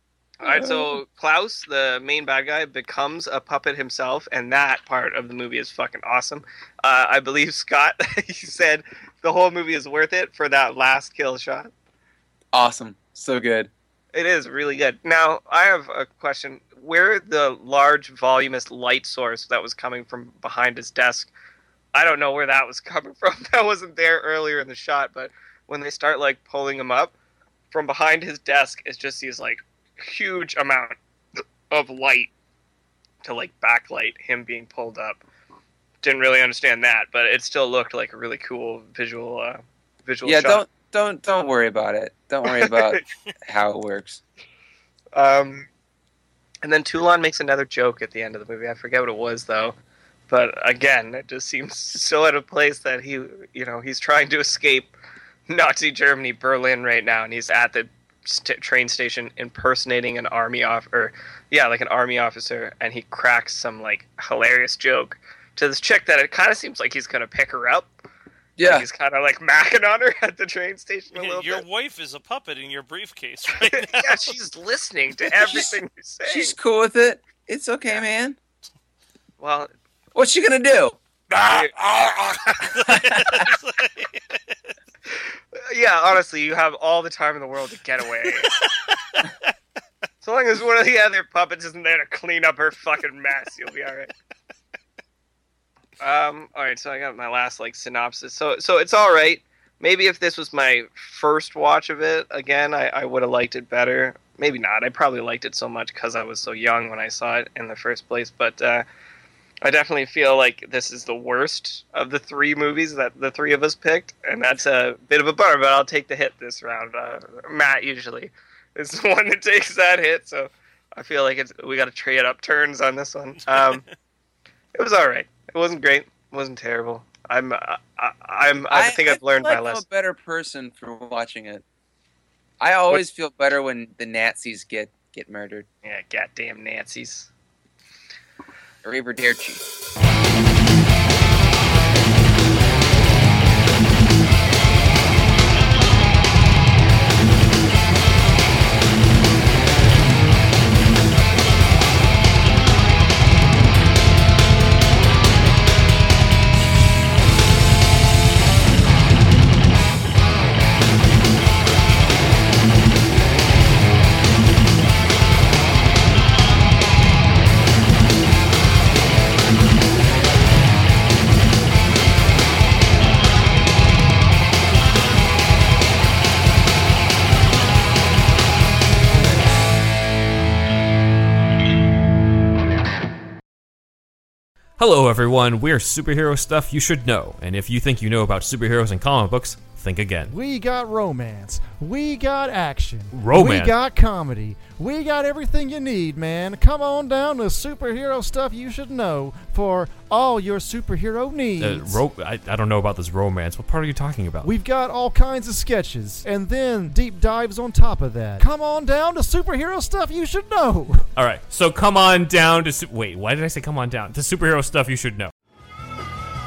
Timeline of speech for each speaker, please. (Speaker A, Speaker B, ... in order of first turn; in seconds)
Speaker A: 0.4-11.7, 14.1-21.3, 21.9-27.1, 27.7-31.0, 31.7-32.3, 33.2-35.2, 36.0-40.6, 42.5-43.0, 45.1-45.7, 46.6-49.8, 50.3-54.9, 55.5-67.9, 68.6-71.6, 73.6-76.5, 79.4-79.7, 81.5-81.7, 85.0-88.6, 90.2-94.1, 96.0-108.8, 109.6-123.8, 124.7-129.8, 135.8-137.3
Speaker B: 0.5-0.9, 12.5-13.7, 40.2-44.2, 68.6-68.8, 75.4-75.7, 76.3-78.4, 80.1-81.0, 82.8-83.4, 128.7-131.6, 132.6-135.7, 138.8-139.6
Speaker C: 71.1-74.3, 82.6-84.2, 88.5-89.5, 123.5-123.8
Speaker D: 184.8-190.3, 193.1-193.8, 201.6-204.5, 211.2-215.3
Speaker E: 190.3-202.0, 204.4-211.1